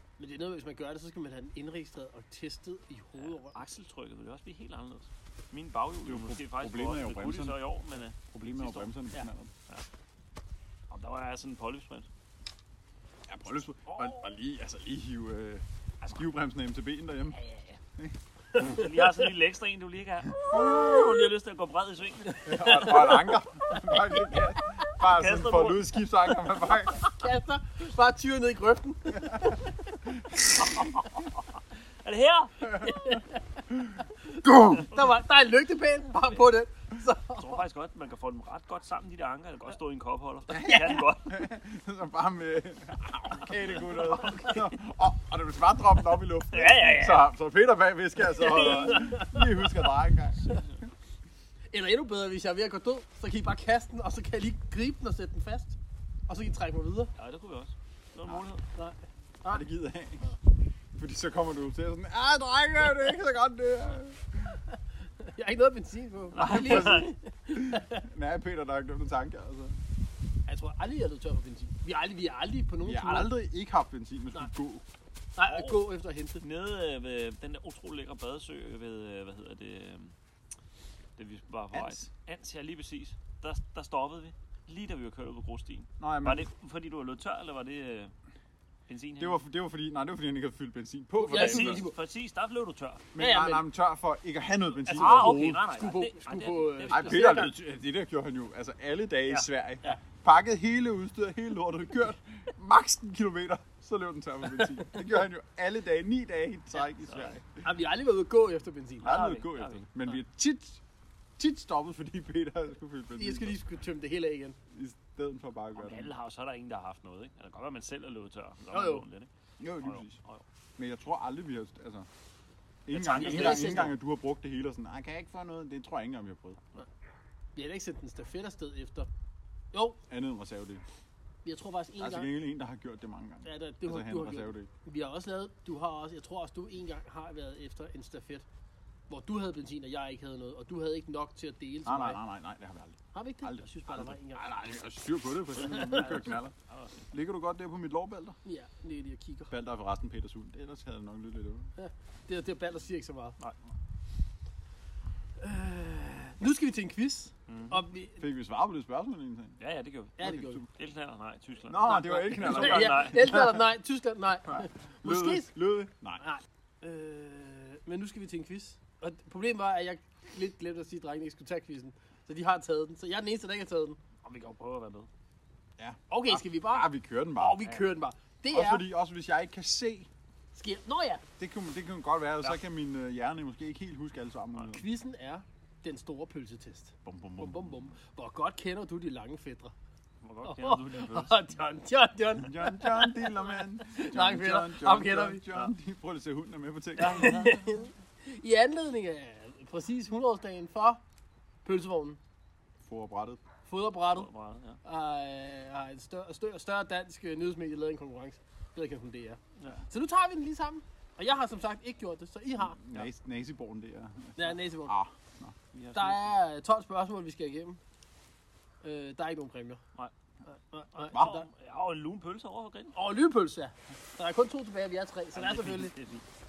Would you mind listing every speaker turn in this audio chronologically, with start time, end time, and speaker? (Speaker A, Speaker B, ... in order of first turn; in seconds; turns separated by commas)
Speaker A: 0.2-3.6, Speaker B: 3.1-8.9, Speaker C: 6.0-7.6, Speaker C: 8.3-9.5, Speaker B: 10.9-12.1, Speaker C: 13.3-17.4, Speaker B: 17.4-17.8, Speaker A: 18.5-19.3, Speaker B: 18.6-23.2, Speaker C: 20.5-20.8, Speaker A: 22.3-23.4, Speaker C: 22.4-27.1, Speaker B: 25.0-25.9, Speaker A: 27.0-31.1, Speaker C: 30.2-30.7, Speaker B: 30.6-31.4, Speaker B: 32.0-33.1, Speaker C: 32.7-33.1, Speaker A: 32.8-33.6, Speaker C: 33.7-34.9, Speaker A: 34.2-37.6, Speaker B: 37.4-41.4, Speaker C: 40.5-50.6, Speaker B: 43.6-44.6, Speaker A: 43.9-44.6, Speaker A: 46.5-47.2, Speaker A: 48.3-49.9, Speaker B: 50.4-50.7, Speaker A: 51.7-57.1, Speaker B: 57.2-58.6, Speaker A: 58.7-59.6, Speaker C: 59.5-60.3, Speaker C: 60.9-64.6, Speaker A: 64.7-68.0, Speaker B: 66.3-67.1, Speaker C: 66.4-69.8, Speaker A: 70.5-73.3, Speaker C: 72.8-74.8, Speaker A: 75.3-76.4, Speaker B: 75.5-75.8, Speaker B: 76.4-80.1, Speaker B: 81.2-88.1, Speaker C: 81.7-82.1, Speaker C: 86.0-86.5, Speaker B: 88.9-89.4, Speaker C: 89.2-91.9, Speaker A: 91.2-92.0, Speaker B: 91.3-93.1, Speaker C: 93.1-95.6, Speaker A: 93.2-93.6, Speaker B: 94.8-97.5, Speaker A: 94.9-97.5, Speaker C: 96.9-107.6, Speaker B: 107.0-107.4, Speaker A: 107.6-109.2, Speaker B: 109.0-110.0, Speaker C: 109.0-110.8, Speaker C: 111.4-113.6, Speaker A: 113.2-114.6, Speaker C: 114.7-116.1, Speaker B: 115.7-120.4, Speaker A: 118.7-119.0, Speaker C: 119.6-120.2, Speaker C: 120.8-122.1, Speaker C: 122.8-126.6, Speaker B: 122.9-123.9, Speaker A: 123.1-123.9, Speaker A: 127.5-129.1, Speaker A: 129.7-130.0, Speaker C: 130.1-130.8, Speaker A: 131.4-132.3, Speaker C: 132.0-134.7, Speaker A: 133.4-138.4, Speaker A: 139.1-142.2, Speaker C: 141.8-146.5, Speaker A: 143.1-144.5, Speaker A: 145.6-146.2, Speaker B: 146.0-147.1, Speaker C: 147.1-148.3, Speaker A: 148.4-149.5, Speaker C: 149.5-151.7, Speaker A: 151.8-153.4, Speaker A: 155.4-158.2, Speaker B: 157.5-157.8, Speaker C: 158.2-159.6, Speaker B: 159.6-163.4, Speaker A: 160.2-160.6, Speaker C: 160.2-160.6, Speaker C: 161.7-163.6, Speaker A: 162.4-165.5, Speaker C: 164.5-166.2, Speaker A: 166.2-174.0, Speaker B: 174.2-175.1, Speaker C: 175.8-177.6, Speaker A: 176.1-178.8, Speaker C: 178.5-180.1, Speaker A: 180.5-181.2, Speaker C: 181.4-184.8, Speaker A: 184.7-189.7, Speaker C: 187.0-187.9, Speaker B: 190.2-191.4, Speaker A: 190.4-195.4, Speaker C: 192.4-197.6, Speaker A: 197.0-201.0, Speaker B: 197.0-197.6, Speaker A: 201.6-202.2, Speaker C: 202.8-203.4, Speaker A: 203.7-204.3, Speaker B: 204.1-204.8, Speaker A: 204.8-212.8, Speaker C: 212.6-215.6, Speaker A: 214.3-214.9, Speaker B: 215.7-216.3, Speaker A: 215.9-217.8, Speaker A: 218.8-219.8, Speaker A: 220.5-221.5, Speaker C: 221.1-221.4, Speaker B: 221.1-222.9, Speaker A: 222.9-225.9, Speaker B: 225.3-226.2